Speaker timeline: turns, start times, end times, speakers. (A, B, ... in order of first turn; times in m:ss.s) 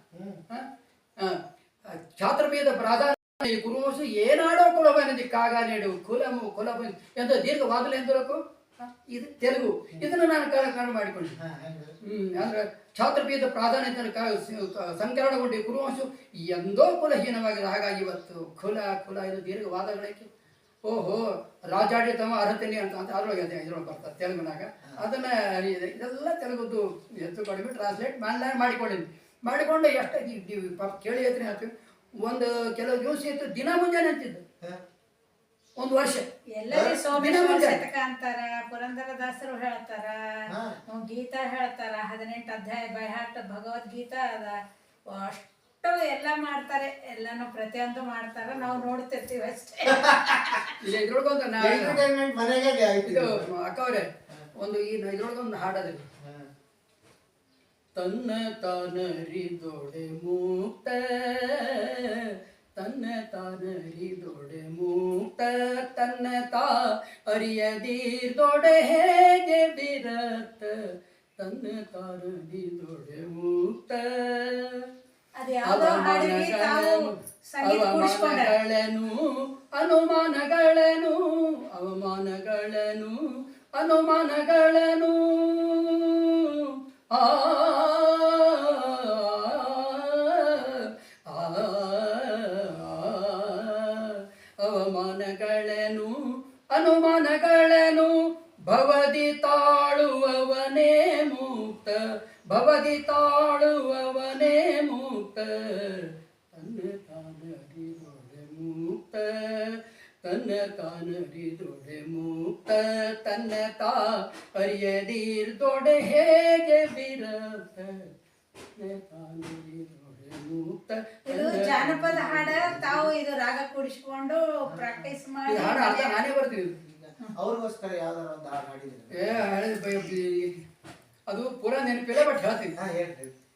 0:00.1-0:00.4 A
0:01.2-0:11.4 B
0:11.4-0:12.0 A
0:12.0-0:20.3 B
0:20.8-0:31.7 B
0:32.2-0:34.4 B
0:35.8-0:36.3 B
0:36.6-0:50.7 C
0:36.7-0:37.0 A
0:37.1-0:37.8 B
0:40.5-0:40.8 A
0:48.5-0:48.9 A
0:49.9-0:50.6 A
0:50.8-0:52.0 B
0:51.6-0:53.5 A
0:53.0-0:56.1 B
0:56.2-0:56.5 A
0:58.0-1:10.8 B
1:11.4-1:14.9 B
1:15.4-1:18.5 C
1:15.7-1:19.2 B
1:19.7-1:23.2 B
1:23.8-1:36.1 B
1:36.7-1:38.1 B
1:38.7-1:58.1 B
1:58.8-2:03.1 B
2:01.3-2:06.2 C
2:04.7-2:05.1 A
2:05.5-2:06.8 B
2:06.8-2:09.4 A
2:09.2-2:10.6 B
2:11.3-2:12.7 B
2:12.8-2:13.4 A